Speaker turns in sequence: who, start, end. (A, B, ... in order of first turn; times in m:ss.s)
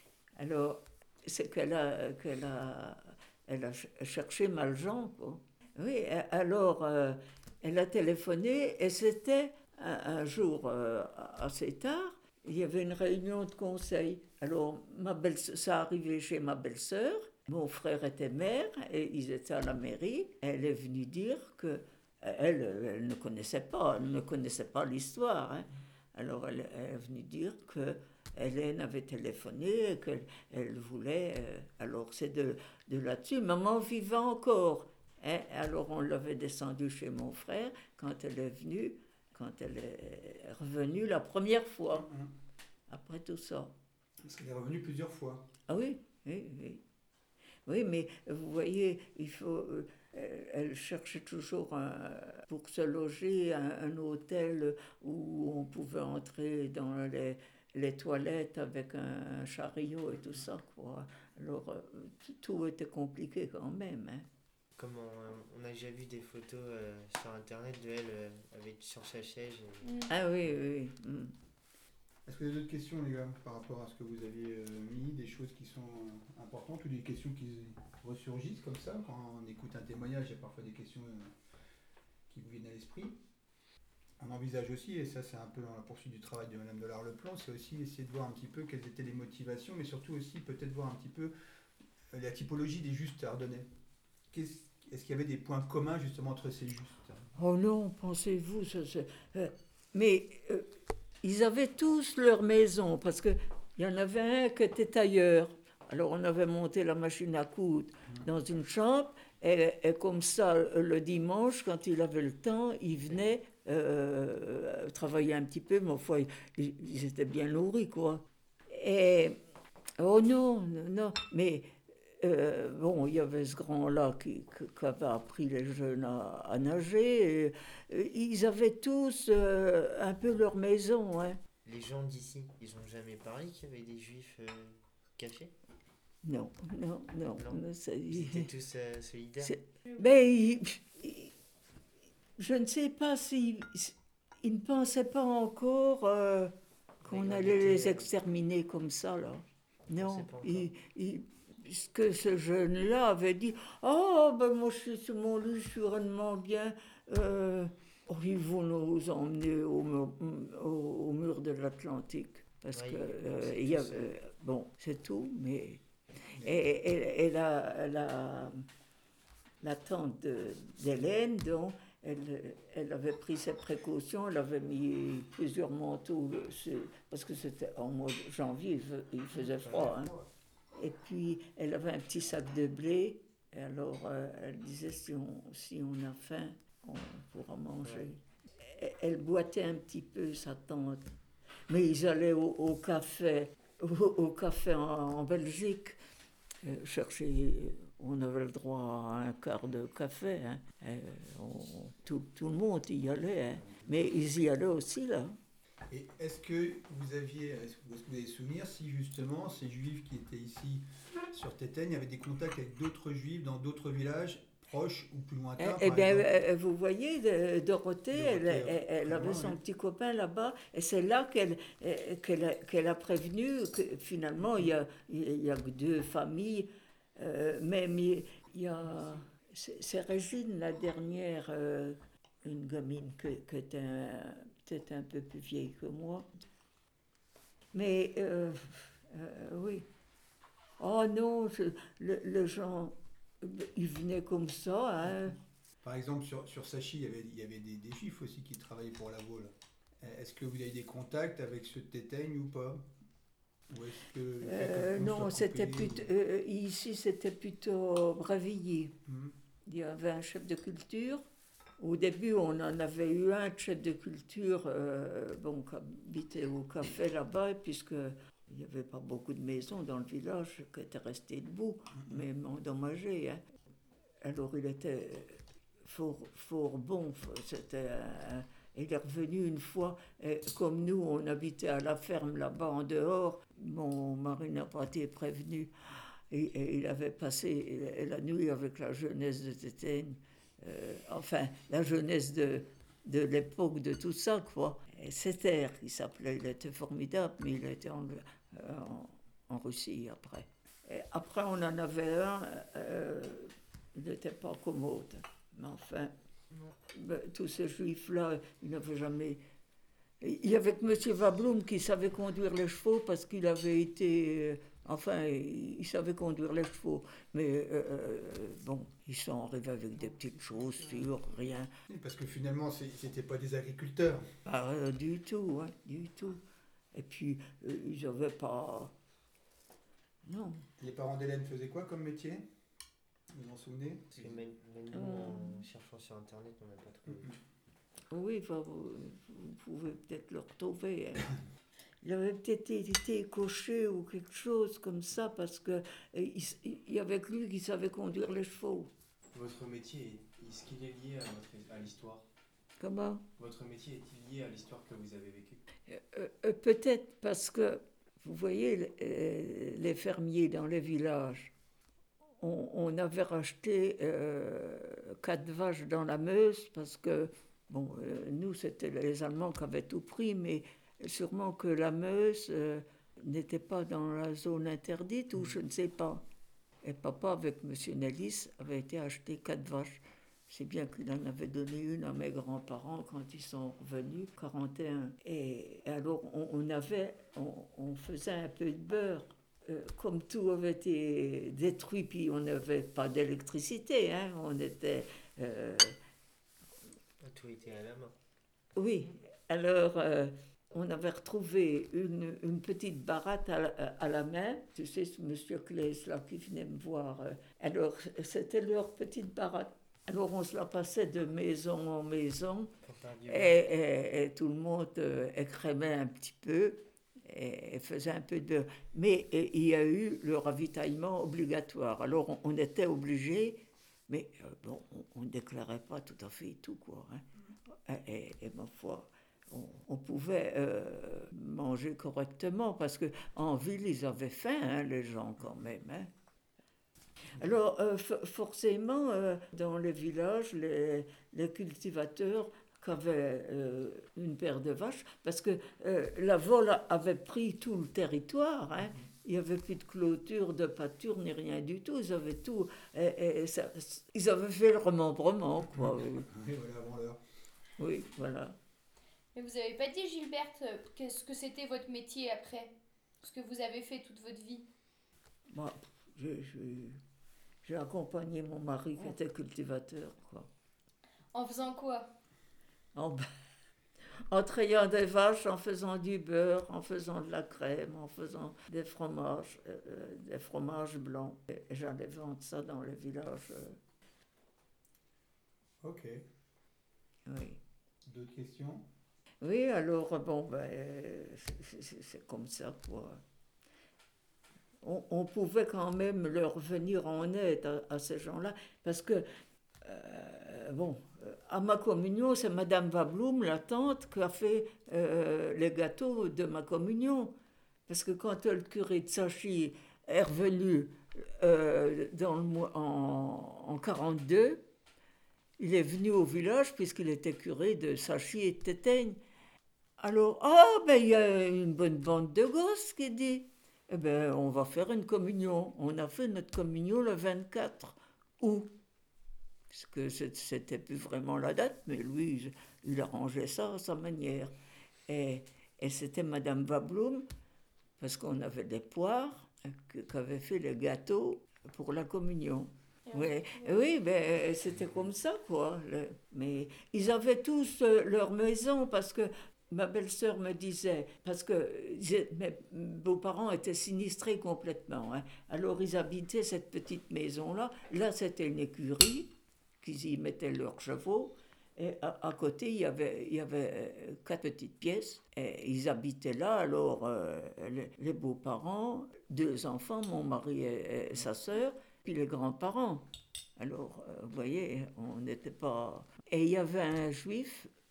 0:00.4-0:42.1 A
0:41.9-0:42.3 B
0:42.9-0:43.7 A
0:44.2-0:45.5 B
0:45.7-0:46.8 A
0:47.6-1:04.2 A
1:04.8-1:10.1 C
1:09.8-1:10.1 D
1:10.1-1:11.3 A
1:12.2-1:21.3 B
1:22.3-1:23.2 B
1:24.2-1:31.3 B
1:32.1-1:33.7 B
1:34.3-1:37.3 B
1:37.3-1:40.7 A
1:41.2-1:59.4 A
2:00.0-2:11.4 A
2:11.6-2:15.5 C
2:16.2-2:18.5 A
2:17.3-2:19.6 C
2:19.4-2:21.3 A
2:22.4-2:26.5 A
2:27.0-2:28.1 C
2:27.0-2:45.8 A
2:29.9-2:30.7 C
2:42.7-2:44.1 C
2:46.3-2:48.7 A
2:49.6-3:00.1 A
3:00.8-3:11.1 A
3:11.7-3:16.0 A
3:16.6-3:25.4 A
3:23.6-3:23.9 B
3:25.9-3:36.4 B
3:35.6-3:56.3 A
3:38.1-3:39.6 B
3:57.7-3:59.9 A
4:00.8-4:05.4 A
4:05.8-4:12.9 B
4:13.7-4:16.1 B
4:14.4-4:18.9 A
4:19.0-4:19.3 B
4:19.6-4:21.2 A
4:21.8-4:33.4 A
4:34.2-5:06.1 A
5:06.9-5:09.4 A
5:10.2-5:21.7 A
5:21.9-5:24.3 B
5:24.4-5:26.4 A
5:26.9-5:28.9 A
5:30.2-5:30.6 A
5:30.8-5:32.5 B
5:33.3-5:34.3 B
5:34.1-5:37.4 C
5:34.9-5:35.6 A
5:37.1-5:37.3 B
5:38.1-5:41.4 A
5:42.0-5:48.9 A
5:49.3-5:52.2 E
5:52.8-5:53.2 A
5:53.4-5:55.6 E
5:55.9-6:01.5 A
6:02.4-6:16.2 A
6:16.8-6:36.0 A
6:37.2-6:38.1 C
6:38.8-6:52.7 A
6:52.8-6:53.6 C
6:53.3-7:16.1 A
7:17.3-7:36.3 A
7:35.7-7:37.2 B
7:37.8-7:38.6 A
7:39.3-7:44.6 D
7:45.5-7:47.0 A
7:47.6-7:50.5 A
7:51.3-7:52.1 D
7:52.9-7:53.2 A
7:54.3-8:03.8 A
8:05.8-8:06.2 B
8:07.2-8:07.6 A
8:08.1-8:08.8 B
8:09.4-8:13.2 A
8:14.8-8:19.3 A
8:19.8-8:27.3 A
8:27.9-8:34.6 A
8:35.6-8:39.2 A
8:40.0-8:48.7 A
8:49.7-8:54.5 A
8:55.1-8:57.3 A
8:58.0-9:19.3 A
9:19.8-9:37.7 A